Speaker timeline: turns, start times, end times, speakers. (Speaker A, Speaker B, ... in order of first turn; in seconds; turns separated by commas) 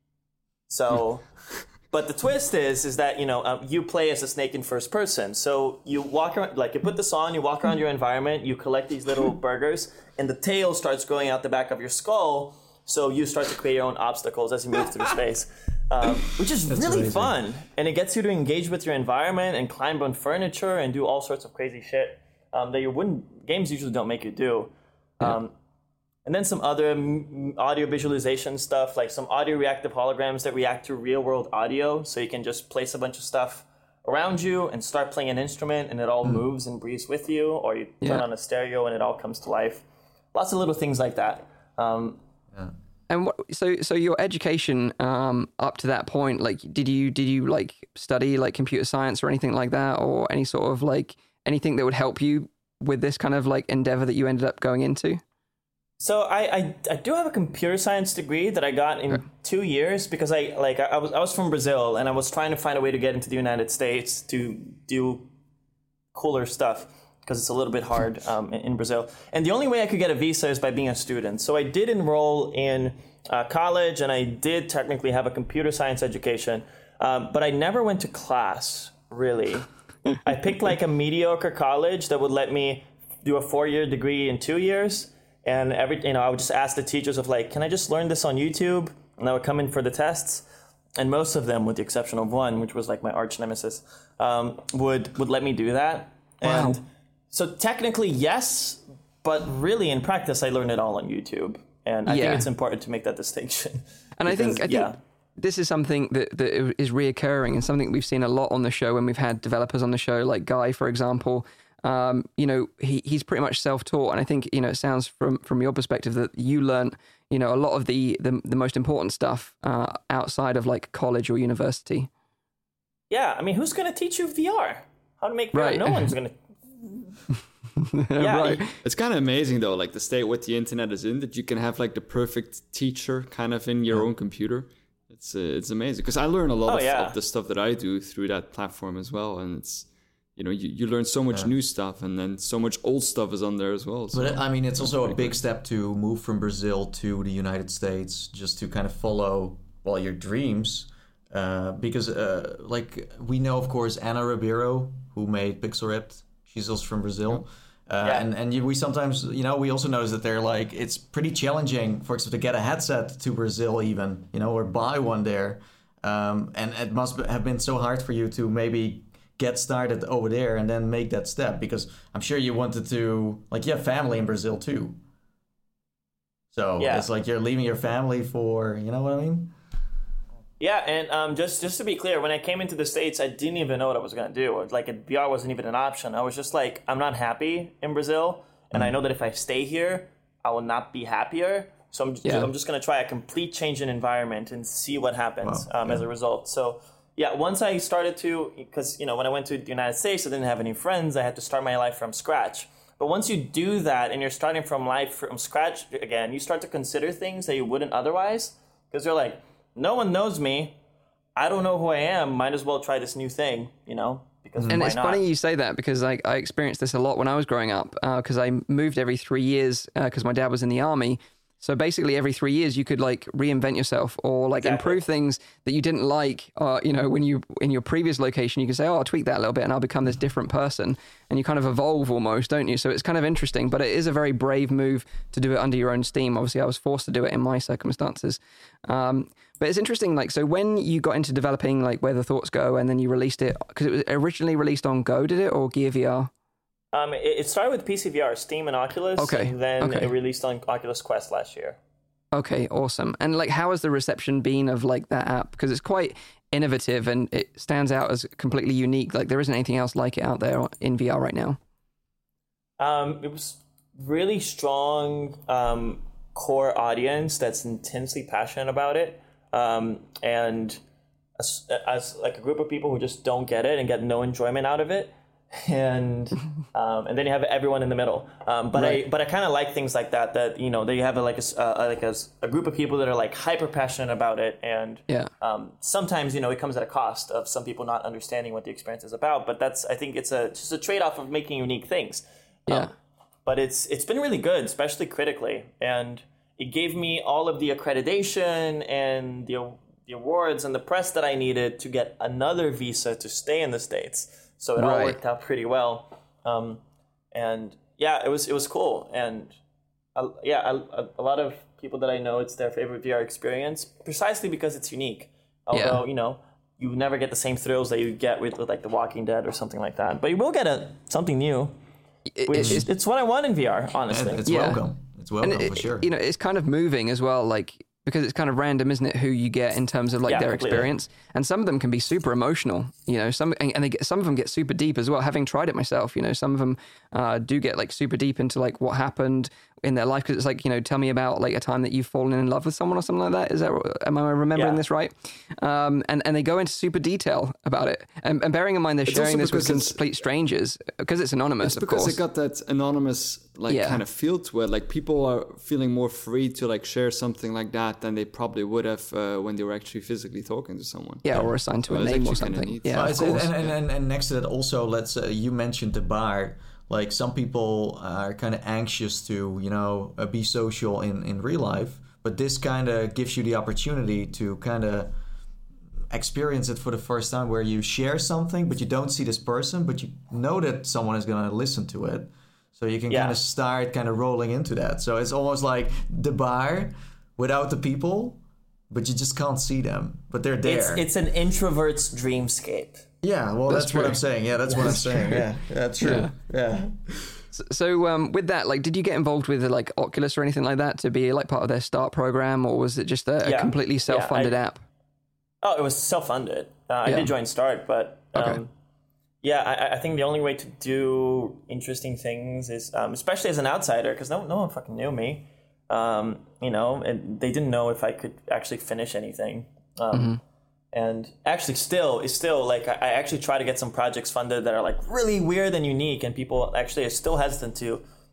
Speaker A: 0.7-25.5, Speaker B: 16.7-17.3, Speaker A: 26.2-42.2, Speaker C: 43.1-55.2, Speaker A: 56.0-65.3, Speaker A: 66.1-105.0, Speaker C: 96.4-96.8, Speaker C: 102.1-102.5, Speaker C: 104.2-122.1, Speaker A: 123.1-126.4, Speaker C: 125.5-126.1, Speaker C: 127.8-128.7, Speaker A: 128.2-128.7, Speaker D: 128.8-145.3, Speaker A: 136.7-137.2, Speaker B: 144.1-175.0, Speaker A: 158.0-158.3, Speaker B: 176.5-179.5, Speaker A: 176.8-177.1, Speaker A: 180.6-210.8, Speaker C: 192.2-192.5, Speaker B: 195.4-196.1, Speaker A: 211.4-215.2, Speaker B: 214.6-214.9, Speaker C: 214.7-246.3, Speaker A: 224.6-225.0, Speaker A: 246.9-251.8, Speaker C: 249.2-250.1, Speaker C: 252.3-261.6, Speaker A: 262.8-270.8, Speaker A: 271.4-292.9, Speaker C: 278.8-279.0, Speaker A: 293.5-309.6, Speaker C: 304.8-305.2, Speaker A: 310.2-321.8, Speaker C: 315.7-316.0, Speaker C: 322.4-322.9, Speaker A: 322.5-324.4, Speaker B: 322.6-322.9, Speaker B: 324.1-326.1, Speaker C: 324.5-324.8, Speaker C: 325.4-352.2, Speaker A: 330.2-330.9, Speaker A: 344.6-344.8, Speaker D: 349.1-350.0, Speaker D: 351.6-363.5, Speaker C: 353.7-354.0, Speaker C: 361.2-363.6, Speaker B: 362.9-375.1, Speaker B: 376.1-391.1, Speaker A: 383.1-383.4, Speaker A: 390.6-393.1, Speaker B: 393.2-397.3, Speaker C: 393.7-394.2, Speaker C: 394.8-395.4, Speaker C: 396.0-396.3, Speaker C: 397.5-404.8, Speaker A: 403.4-404.6, Speaker A: 405.6-408.7, Speaker C: 407.1-407.3, Speaker C: 408.4-408.6, Speaker A: 409.4-420.4, Speaker C: 420.1-420.4, Speaker A: 420.9-428.0